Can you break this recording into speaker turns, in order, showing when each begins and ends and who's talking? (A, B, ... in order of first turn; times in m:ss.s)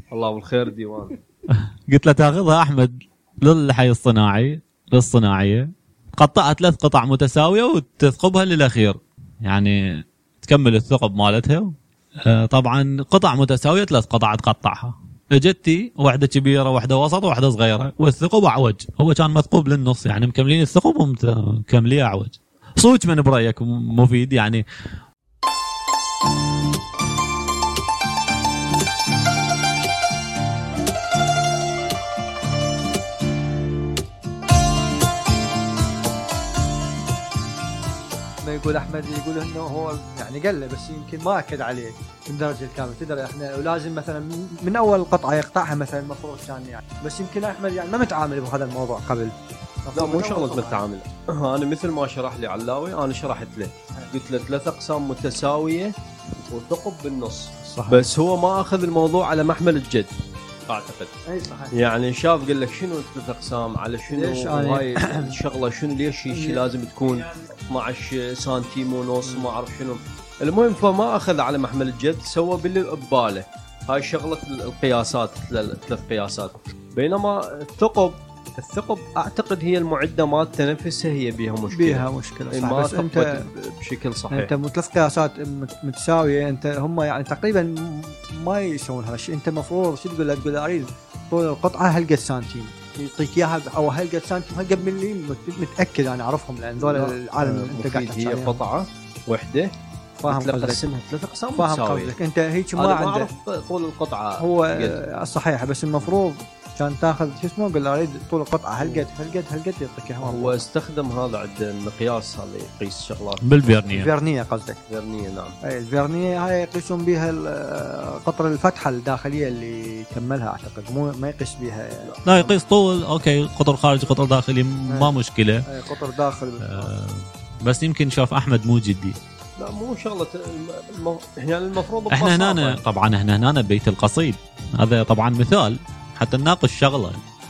0:00.1-0:01.2 A
0:01.6-0:09.8 B
0:10.4-0:11.7 B
0:12.2-0:24.6 B
0:38.4-0:50.8 C
0:49.9-0:55.9 A
0:56.5-1:00.1 A
0:57.7-0:58.1 C
1:00.7-1:01.1 A
1:01.3-1:01.7 C
1:01.7-1:24.5 A
1:04.1-1:05.3 C
1:06.3-1:06.6 C
1:09.3-1:09.6 C
1:21.7-1:23.5 C
1:24.3-1:38.6 C
1:36.8-1:39.7 A
1:40.2-1:40.8 C
1:40.3-1:42.2 A
1:41.6-1:43.3 C
1:42.8-1:45.0 A
1:44.4-1:50.6 C
1:50.2-1:54.0 A
1:53.4-1:54.1 B
1:53.9-1:54.8 C
1:54.9-1:55.6 A
1:55.6-2:02.3 C
2:02.2-2:05.6 B
2:05.6-2:06.9 C
2:06.6-2:09.2 B
2:09.6-2:12.8 A
2:12.1-2:17.2 B